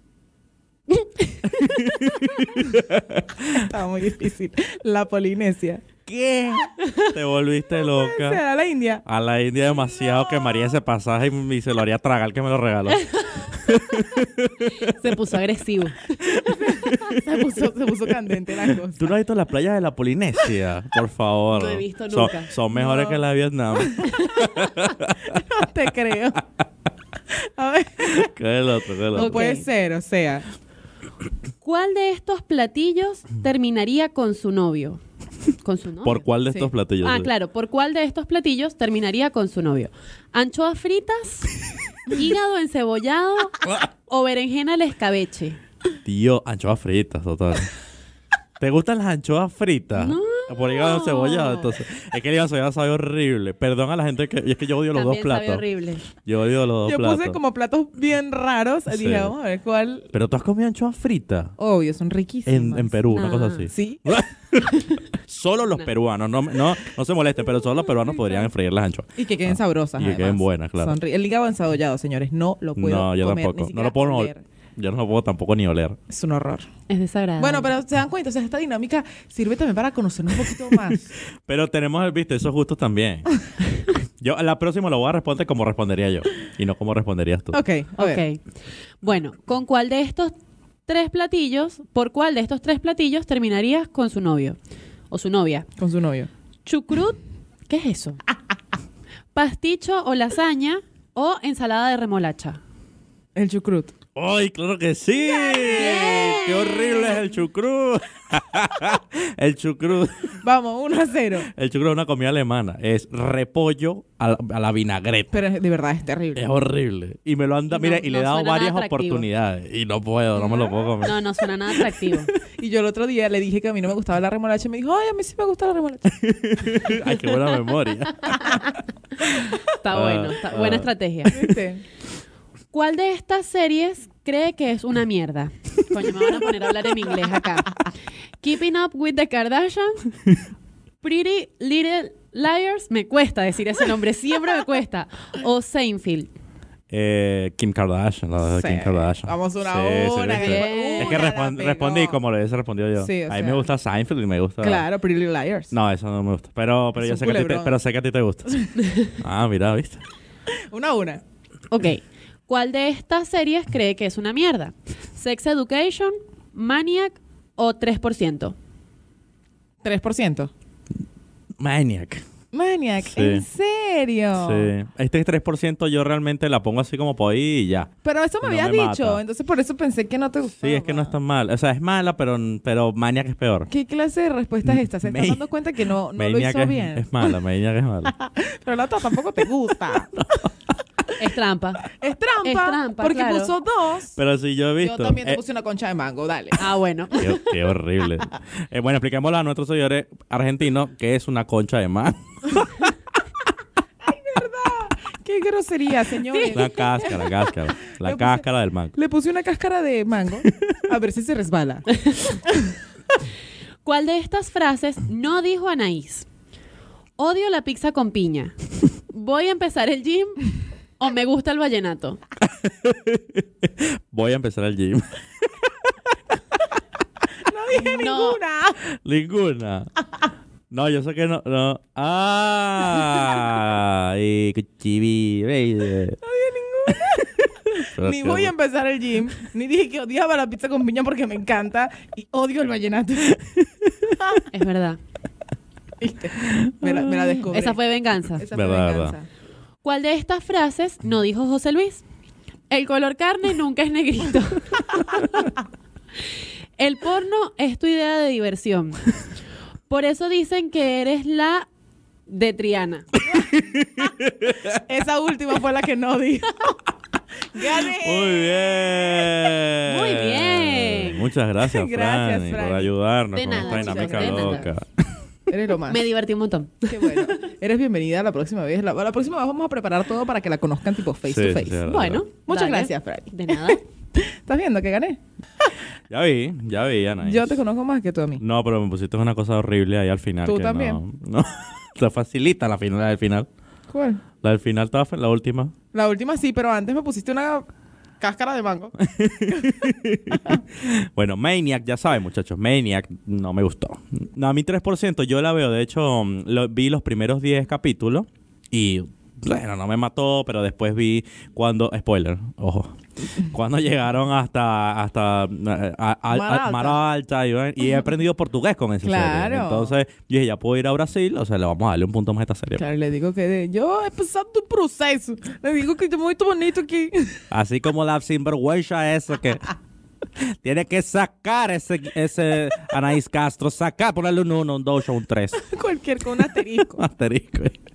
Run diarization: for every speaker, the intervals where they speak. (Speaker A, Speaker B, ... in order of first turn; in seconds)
Speaker A: 0.9-1.3, 14.7-16.6, 21.5-22.6, 29.1-29.7, 31.6-36.2, 37.0-41.5, 42.1-45.6, 50.0-51.8, 54.9-56.0, 63.1-63.7, 76.9-77.7, 88.0-88.4, 89.0-90.3, 90.9-94.6, 95.1-95.7, 96.7-97.2, 97.7-98.2, 99.3-102.6, 105.3-107.3, 117.7-119.2, 120.4-122.3, 128.3-131.4, 132.7-137.8, 138.4-140.1, 141.0-146.3, 150.3-151.3, 161.7-168.6, 191.2-191.9, 192.4-193.6, 196.6-197.4, 206.3-207.2, 213.8-216.2, 217.2-218.5, 219.1-222.2, 227.7-228.4, 244.5-245.0, 247.5-248.4, 249.8-252.0, 252.7-255.5, 256.8-259.1, 259.9-261.7, 262.3-263.1, 269.8-271.3, 273.4-274.7, 275.9-277.4, 281.9-283.8
Speaker B: 1.5-3.7, 6.1-8.4, 9.1-15.2, 16.6-17.4, 18.6-25.4, 28.0-29.4, 36.0-37.3, 46.0-47.7, 48.6-55.6, 56.2-57.4, 58.9-59.3, 60.1-61.5, 62.5-71.0, 72.8-76.0, 80.7-87.6, 104.2-110.4, 111.5-115.3, 116.3-122.2, 126.1-128.6, 129.9-130.9, 146.9-154.9, 155.7-160.0, 171.6-172.2, 173.1-173.4, 174.4-179.2, 180.6-183.7, 184.7-185.4, 186.2-188.2, 190.1-190.5, 194.2-195.4, 197.2-202.7, 206.5-208.9, 222.4-225.7, 228.9-229.9, 230.7-236.2, 237.8-238.5, 243.8-244.2, 246.5-246.9, 248.5-249.2, 263.3-264.8, 267.7-275.1, 281.3-282.2, 286.1-287.6, 288.4-293.5, 294.4-295.7, 299.0-322.8, 327.5-329.7, 330.4-335.6, 336.6-337.8
Speaker C: 3.5-5.8, 7.9-9.0, 16.2-19.2, 22.7-23.2, 23.8-24.7, 25.2-26.4, 27.3-28.3, 29.1-30.5, 56.8-60.1, 61.6-63.0, 63.7-64.2, 69.2-74.4, 76.1-76.7, 77.4-81.1, 87.5-88.2, 95.8-96.3, 103.3-103.9, 110.4-111.5, 115.3-116.5, 122.6-126.1, 131.3-131.8, 148.5-152.2, 153.0-153.7, 154.6-155.7, 157.0-157.8, 160.7-161.2, 169.8-170.5, 172.5-174.7, 178.0-181.2, 183.7-187.3, 188.2-190.4, 191.9-194.2, 194.8-196.7, 204.0-207.2, 208.0-208.4, 208.9-211.9, 212.4-212.7, 227.4-228.8, 236.2-243.4, 246.0-247.8, 248.3-249.3, 264.8-266.8, 267.5-269.4, 271.6-272.9, 273.5-274.7, 275.5-276.0, 276.9-281.9, 282.5-285.7, 287.2-288.4, 290.4-291.0, 293.9-294.2, 295.9-297.7, 298.2-299.0, 316.3-317.0, 319.0-319.9, 322.8-327.4, 335.6-337.0